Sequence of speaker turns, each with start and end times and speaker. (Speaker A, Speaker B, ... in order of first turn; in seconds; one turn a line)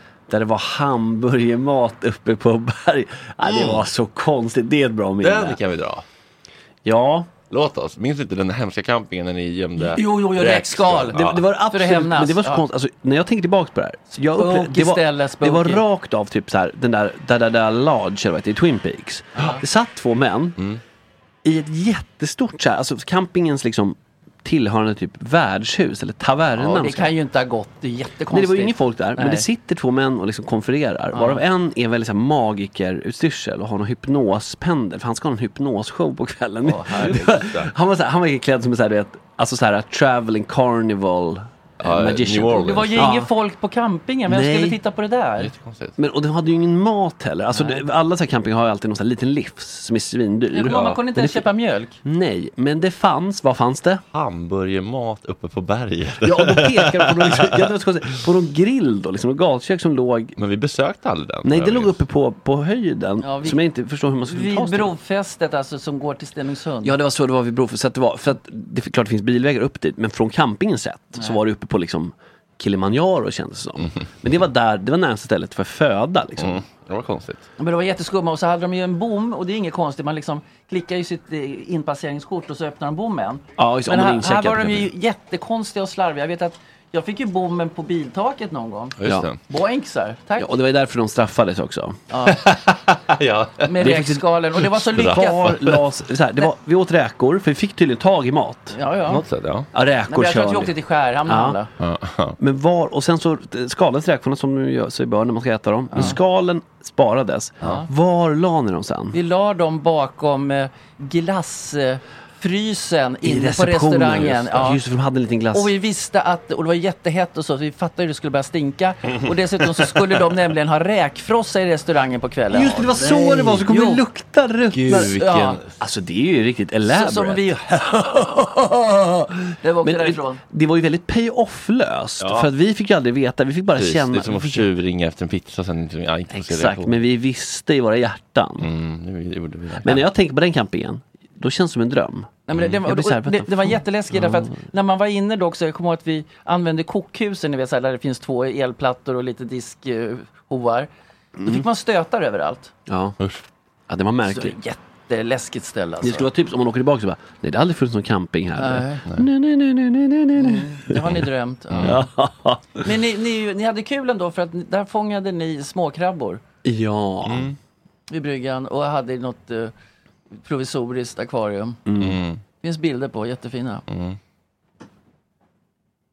Speaker A: 0.3-5.6
Speaker B: 3.4-3.9
Speaker B: 5.2-6.0
Speaker A: 6.8-7.3
Speaker B: 7.5-11.4
Speaker C: 9.9-12.7
Speaker A: 11.1-20.6
Speaker C: 14.2-15.8
Speaker C: 19.4-19.6
Speaker A: 21.4-27.1
Speaker C: 26.6-29.5
Speaker A: 28.3-43.3
Speaker C: 31.1-31.4
Speaker C: 36.6-37.2
Speaker B: 37.0-37.7
Speaker B: 41.8-43.1
Speaker C: 42.6-45.5
Speaker A: 44.3-44.8
Speaker B: 45.4-46.0
Speaker A: 46.0-51.5
Speaker C: 47.5-47.8
Speaker C: 50.5-52.0
Speaker B: 50.6-50.9
Speaker A: 52.0-54.0
Speaker B: 54.1-57.7
Speaker A: 56.2-60.4
Speaker B: 60.4-62.0
Speaker A: 61.4-64.9
Speaker C: 63.2-63.6
Speaker C: 64.2-67.0
Speaker A: 66.8-76.6
Speaker B: 76.4-77.5
Speaker C: 77.6-90.5
Speaker A: 83.6-84.9
Speaker B: 89.0-89.4
Speaker A: 89.0-89.3
Speaker A: 90.4-92.0
Speaker C: 92.1-92.4
Speaker B: 92.3-93.7
Speaker C: 93.7-95.6
Speaker A: 93.8-94.2
Speaker B: 94.6-95.8
Speaker A: 95.0-98.8
Speaker C: 98.7-99.2
Speaker B: 99.1-99.7
Speaker A: 99.7-100.7
Speaker C: 100.1-101.7
Speaker A: 101.2-101.6
Speaker B: 101.8-102.4
Speaker A: 102.4-109.2
Speaker C: 107.6-107.9
Speaker C: 109.1-114.8
Speaker A: 113.2-115.7
Speaker C: 115.5-124.0
Speaker A: 122.5-125.2
Speaker B: 124.7-125.8
Speaker C: 125.0-125.6
Speaker A: 125.8-134.7
Speaker C: 126.9-128.0
Speaker C: 129.6-130.4
Speaker B: 132.2-132.5
Speaker B: 133.8-137.0
Speaker A: 136.3-138.7
Speaker B: 138.6-140.1
Speaker A: 139.8-144.4
Speaker C: 142.5-150.9
Speaker A: 151.4-151.7
Speaker C: 151.4-152.7
Speaker A: 152.9-153.2
Speaker A: 153.9-154.6
Speaker C: 154.2-156.3
Speaker A: 156.0-161.1
Speaker C: 158.6-159.1
Speaker C: 160.4-162.0
Speaker B: 161.7-162.0
Speaker A: 161.8-162.9
Speaker C: 162.8-166.4
Speaker A: 166.6-167.5
Speaker B: 167.2-167.6
Speaker C: 168.1-169.7
Speaker C: 170.4-171.8
Speaker A: 171.9-172.2
Speaker B: 172.0-172.4
Speaker C: 172.6-173.8
Speaker B: 173.9-174.2